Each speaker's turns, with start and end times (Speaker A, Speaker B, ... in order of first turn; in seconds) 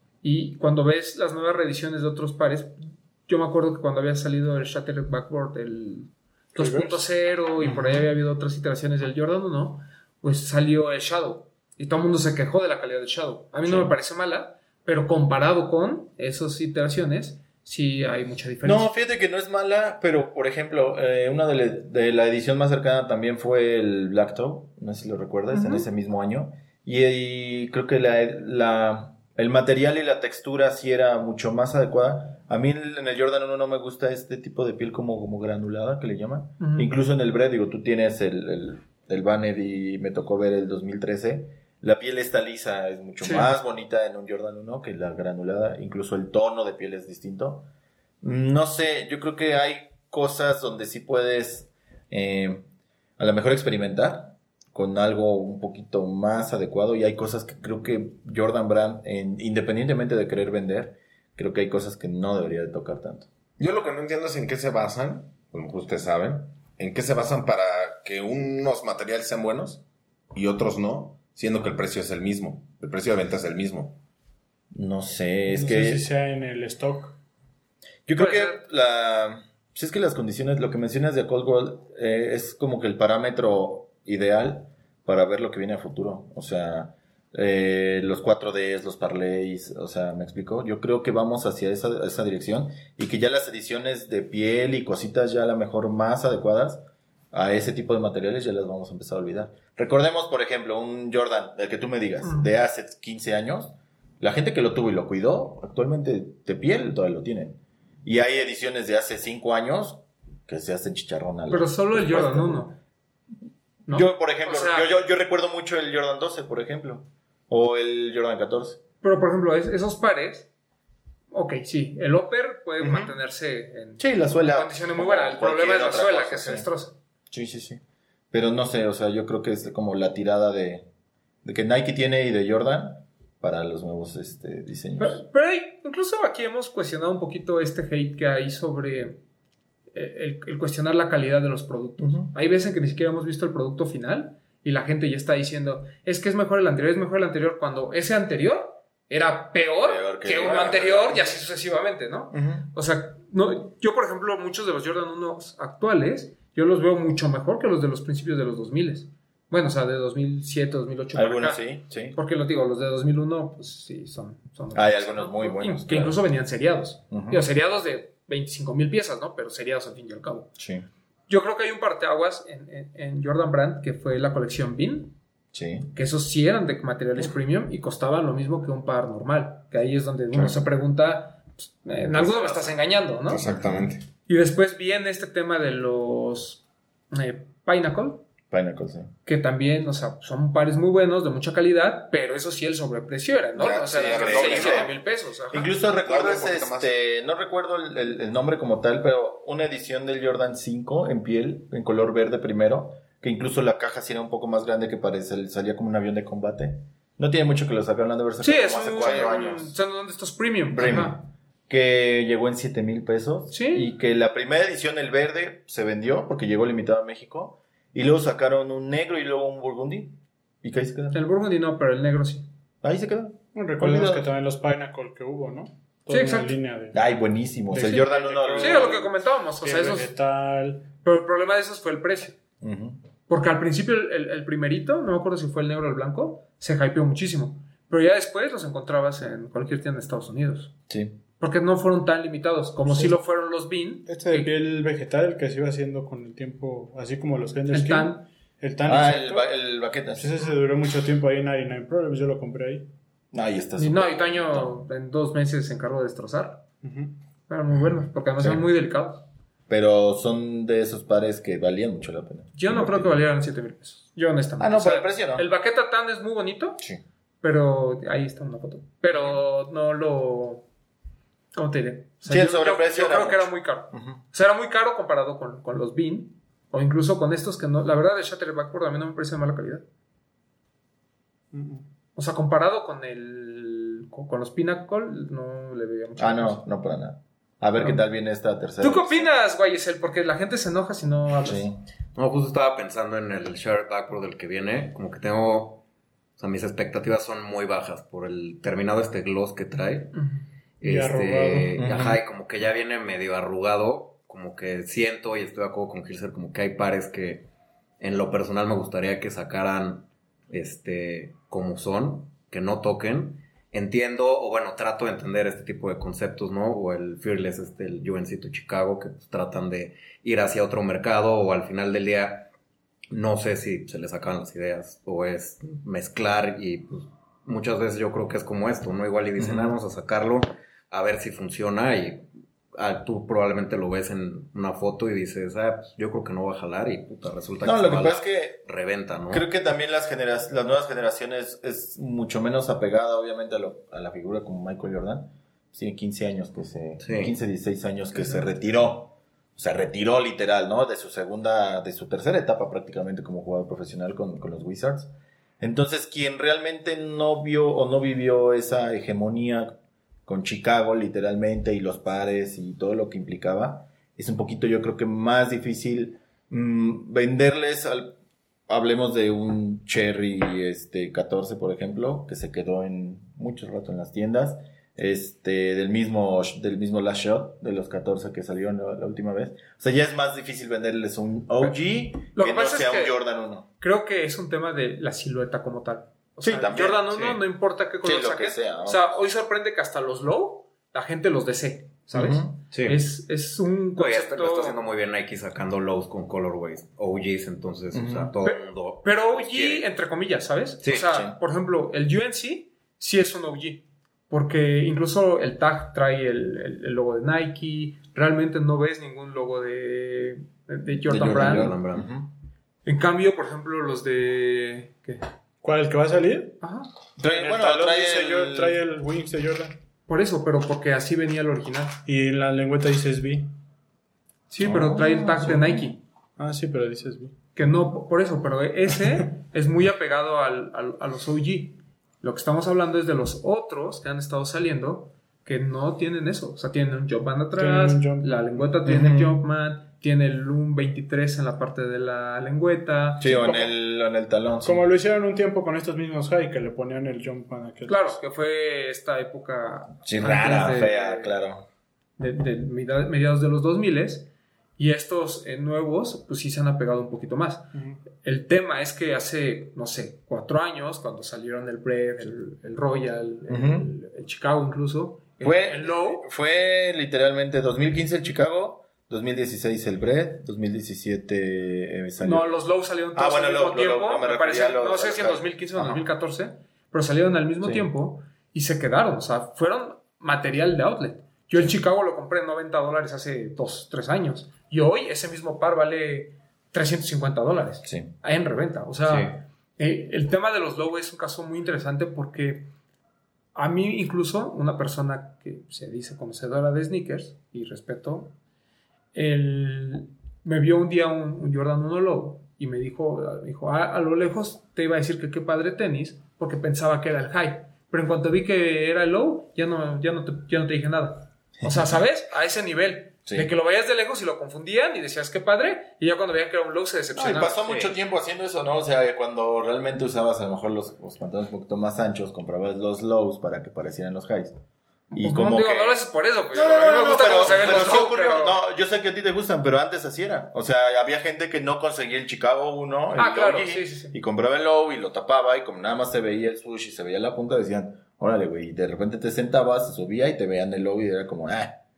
Speaker A: 0.2-18.9, 25.5-25.9, 36.6-36.9, 43.2-43.5, 78.2-78.6, 102.2-102.5, 111.5-112.7, 113.9-114.9, 119.0-120.5, 121.3-126.9, 135.0-139.2, 139.9-170.5, 171.3-175.2, 175.9-183.4, 184.3-188.2, 189.2-195.7, 208.4-211.2, 213.5-213.9, 221.1-222.5, 226.1-226.6, 228.6-230.1, 231.0-232.4, 233.3-240.7, 241.4-244.5, 247.7-248.2, 253.8-256.6, 257.5-259.2, 262.5-266.8, 267.4-270.6, 271.5-279.8, 282.1-286.6, 288.8-291.7, 300.1-300.4, 382.3-383.2, 383.8-394.8, 398.4-411.8, 412.8-415.2, 416.6-416.9, 420.1-422.0, 424.5-426.0, 427.6-443.6, 447.9-451.4, 452.2-466.3, 472.2-492.7, 493.5-498.3, 499.1-517.6, 525.1-528.5, 533.1-534.2
Speaker B: 6.5-7.0, 75.5-77.2, 223.5-227.0, 227.7-230.9, 242.8-243.2, 244.1-249.5, 250.2-252.9, 256.8-257.1, 281.5-281.8, 300.8-301.9, 415.6-416.6, 417.2-419.7, 422.1-423.5, 426.4-427.3, 428.9-429.2, 437.6-438.8, 444.6-448.2, 457.7-458.0
Speaker C: 13.6-13.9, 18.6-47.7, 48.2-52.6, 53.2-63.3, 74.7-76.0, 78.1-112.7, 113.9-118.8, 122.8-123.2, 124.0-126.7, 127.3-130.8, 131.4-135.2, 142.0-142.3, 149.8-151.3, 152.3-152.7, 161.1-162.2, 164.7-166.2, 167.1-167.4, 170.6-170.8, 175.5-175.9, 183.4-183.9, 188.5-189.1, 193.9-194.9, 195.5-209.7, 210.7-221.2, 222.8-224.3, 226.9-229.1, 232.6-233.0, 240.9-241.2, 248.8-250.5, 253.3-254.8, 258.4-258.6, 259.7-263.2, 264.6-265.5, 272.3-274.2, 286.2-289.3, 291.4-291.8, 301.8-302.2, 329.4-329.8, 337.6-338.6, 339.3-359.7, 360.2-368.1, 368.7-383.7, 386.4-387.0, 388.0-389.0, 392.1-392.6, 397.9-398.3, 400.9-401.4, 411.0-412.3, 417.2-418.8, 424.6-425.8, 438.9-439.4, 443.2-444.9, 450.0-451.6, 463.5-463.9, 465.4-472.5, 473.1-476.1, 477.6-477.9, 487.8-488.1, 511.6-512.0, 517.1-524.5, 525.1-526.0, 526.5-541.8
Speaker D: 63.6-74.0, 182.2-182.7, 183.2-184.0, 193.5-194.9, 196.0-196.9
Speaker E: 292.1-295.8, 296.4-300.1, 300.8-307.5, 308.0-322.5, 323.1-339.4, 347.0-347.3, 387.1-387.4, 392.7-393.0, 393.9-399.9, 400.8-401.1, 411.2-412.1, 489.1-489.4, 517.6-517.9